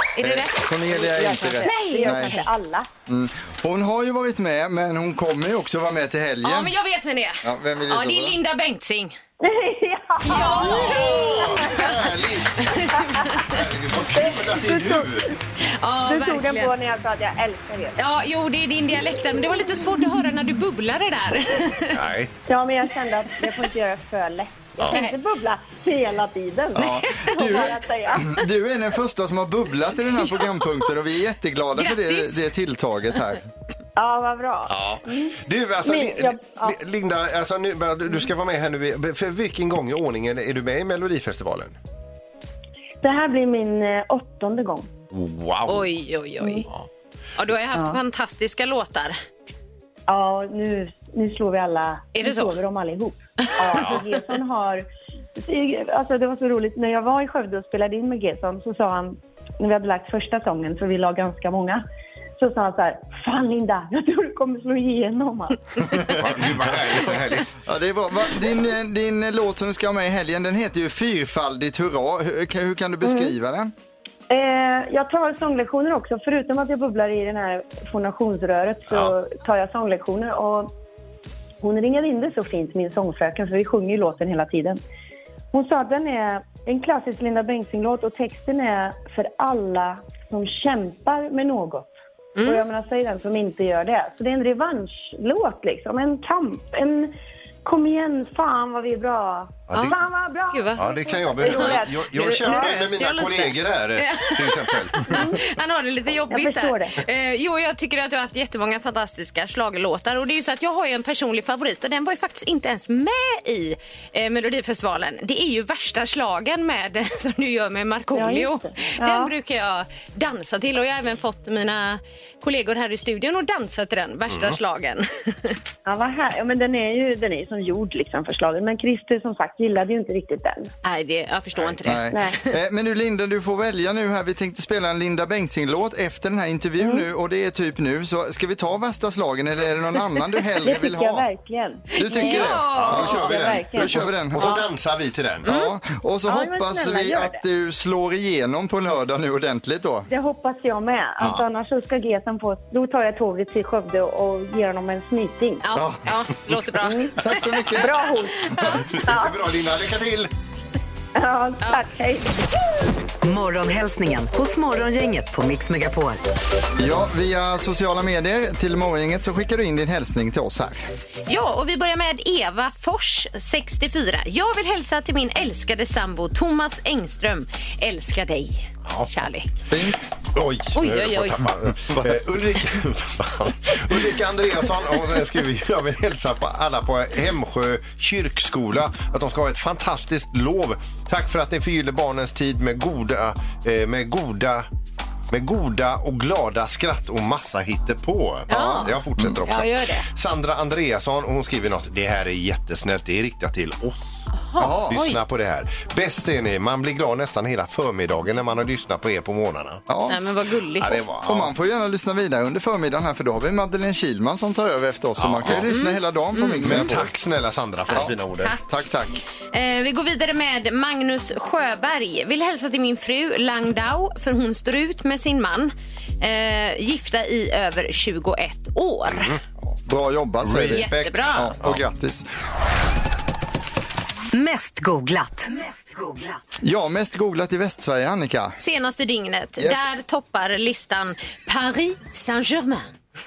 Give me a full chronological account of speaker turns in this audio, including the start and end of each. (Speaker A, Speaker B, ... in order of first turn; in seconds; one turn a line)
Speaker A: 0.2-2.5
Speaker B: 0.2-2.4
Speaker C: 1.0-2.9
Speaker B: 3.1-6.7
Speaker A: 6.4-9.2
Speaker B: 7.4-8.4
Speaker C: 9.4-12.0
Speaker A: 10.2-13.6
Speaker D: 10.3-15.3
Speaker C: 14.1-15.4
Speaker A: 15.7-16.7
Speaker C: 16.1-18.0
Speaker A: 18.0-22.0
Speaker D: 21.9-22.3
Speaker C: 22.5-28.5
Speaker A: 24.9-25.2
Speaker B: 26.8-33.4
Speaker A: 26.9-27.7
Speaker A: 30.2-30.9
Speaker A: 31.8-32.5
Speaker C: 34.0-36.8
Speaker D: 34.7-41.8
Speaker C: 43.0-44.9
Speaker D: 45.1-45.9
Speaker A: 45.7-46.7
Speaker C: 46.4-46.7
Speaker A: 47.4-49.2
Speaker C: 47.7-48.0
Speaker C: 50.1-54.9
Speaker A: 52.1-52.6
Speaker A: 53.4-54.1
Speaker D: 53.7-54.0
Speaker C: 55.4-61.8
Speaker C: 62.4-66.0
Speaker D: 65.9-67.6
Speaker B: 66.0-67.1
Speaker B: 67.6-73.7
Speaker C: 73.0-73.3
Speaker C: 74.3-80.7
Speaker C: 81.6-84.8
Speaker C: 85.5-91.9
Speaker A: 92.4-92.7
Speaker C: 92.4-97.1
Speaker C: 97.7-102.8
Speaker D: 99.7-100.0
Speaker A: 100.5-125.6
Speaker D: 100.8-105.3
Speaker C: 105.1-105.4
Speaker C: 106.3-107.0
Speaker C: 118.1-119.3
Speaker D: 124.3-124.6
Speaker C: 125.8-130.7
Speaker A: 130.8-132.5
Speaker B: 131.8-141.3
Speaker C: 132.1-132.4
Speaker C: 136.8-137.1
Speaker C: 140.6-144.6
Speaker B: 141.9-144.7
Speaker A: 142.0-143.4
Speaker D: 142.5-145.5
Speaker A: 145.4-145.7
Speaker B: 145.4-150.1
Speaker C: 146.3-147.4
Speaker C: 150.1-155.6
Speaker A: 155.6-157.8
Speaker C: 156.8-157.2
Speaker B: 157.2-158.0
Speaker C: 157.7-159.5
Speaker A: 158.4-158.9
Speaker D: 158.6-160.3
Speaker C: 161.2-162.3
Speaker E: 163.2-166.2
Speaker B: 166.8-170.9
Speaker A: 171.3-179.6
Speaker D: 178.9-179.1
Speaker B: 179.7-180.1
Speaker D: 180.3-194.7
Speaker A: 180.7-181.5
Speaker D: 195.3-204.3
Speaker B: 198.5-199.4
Speaker A: 198.5-200.1
Speaker A: 204.3-205.2
Speaker B: 204.6-205.0
Speaker D: 204.9-209.8
Speaker B: 209.9-210.2
Speaker A: 210.1-211.1
Speaker D: 210.8-211.5
Speaker B: 211.2-217.1
Speaker D: 215.2-215.7
Speaker A: 215.5-216.9
Speaker D: 216.6-218.6
Speaker A: 217.9-218.6
Speaker B: 217.9-219.2
Speaker A: 219.5-229.3
Speaker D: 229.1-229.4
Speaker B: 229.6-232.3
Speaker D: 230.4-231.8
Speaker A: 230.7-231.5
Speaker E: 234.3-236.4
Speaker B: 236.6-238.6
Speaker A: 238.6-242.8